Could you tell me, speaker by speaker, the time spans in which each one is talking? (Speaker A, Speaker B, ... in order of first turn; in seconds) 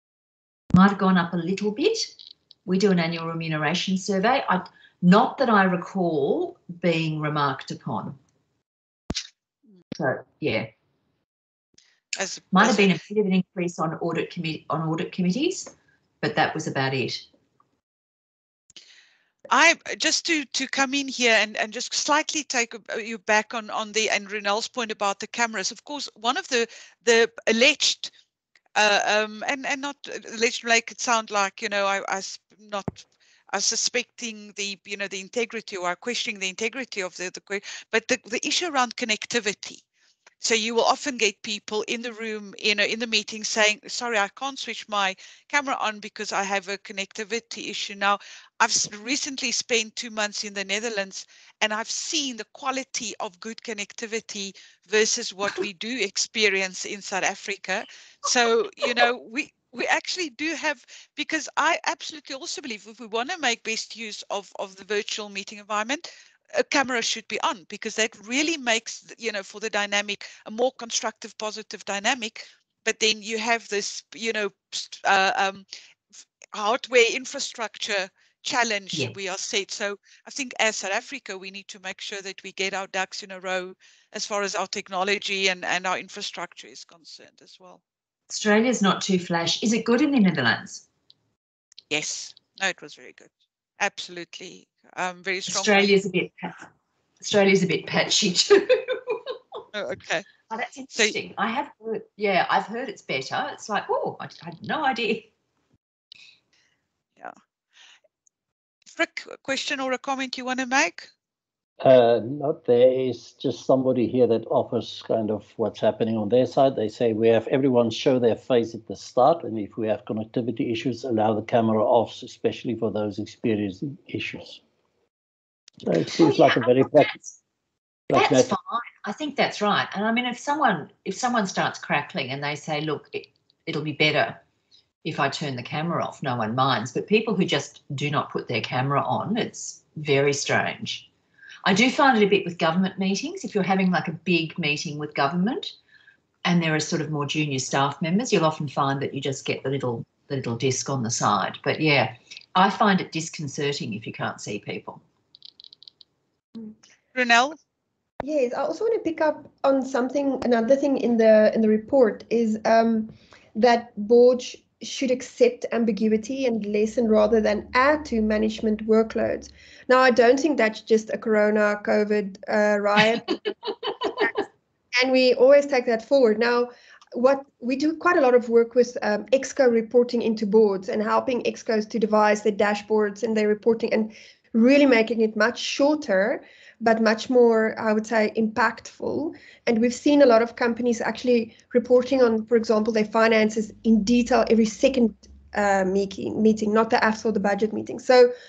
Speaker A: 0.7-2.1, 2.7-8.2, 9.9-10.7, 12.5-17.3, 88.3-90.8, 95.5-96.6, 97.2-99.4, 100.5-105.3, 126.2-127.4, 128.1-134.4, 135.0-141.1, 141.7-145.7, 146.4-155.0
Speaker B: 12.2-12.9, 19.5-28.1, 28.8-39.8, 40.4-87.8, 91.9-95.9, 99.7-100.3, 108.9-111.1, 157.1-157.6
Speaker C: 111.8-124.6, 125.8-127.2, 128.1-128.5
Speaker D: 158.2-173.6, 174.2-198.3